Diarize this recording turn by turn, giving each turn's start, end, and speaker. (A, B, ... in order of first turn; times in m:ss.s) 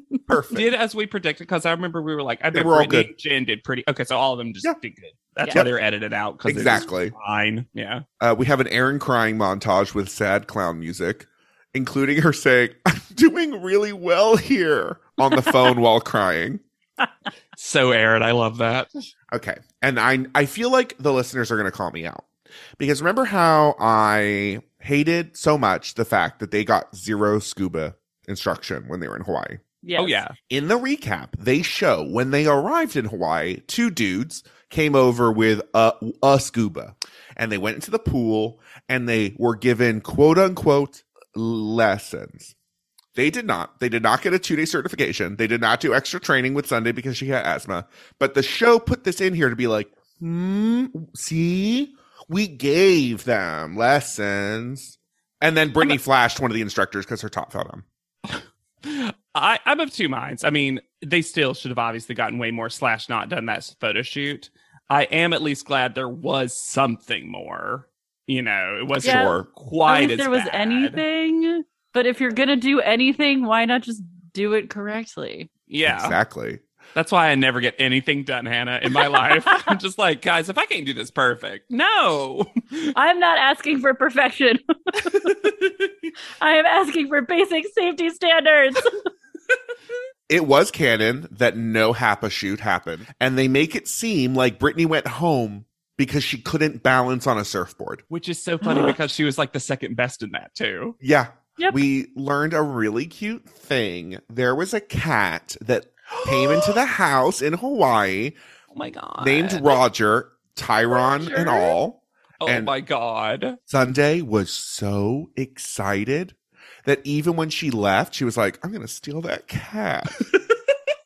0:00.3-0:00.7 A
0:00.5-0:08.0 B
0:02.5-0:03.1 A
0:06.5-0:07.1 A
0:08.2-0:16.6 A
0:17.6-0:18.9 B
0:19.3-0:22.2 A
0:22.8-0:29.6 A
0:29.8-0:30.2 C
0:30.0-0:30.3 B
0:30.5-0:42.5 A
0:43.2-0:57.8 A
0:58.2-1:11.0 B
1:09.0-1:09.5 A
1:09.0-1:15.5 C
1:15.7-1:16.2 B
1:15.9-1:16.6 A
1:17.0-1:22.9 B
1:19.1-1:19.7 C
1:23.0-1:25.3 C
1:25.0-1:25.9 B
1:26.4-1:28.9 C
1:30.3-1:38.0 A
1:38.1-1:41.0 B
1:38.6-1:39.0 C
1:41.0-1:48.3 A
1:46.2-1:46.8 B
1:48.7-1:49.8 B
1:49.2-1:52.7 A
1:51.0-1:51.8 C
1:52.4-1:53.6 B
1:53.7-2:00.2 A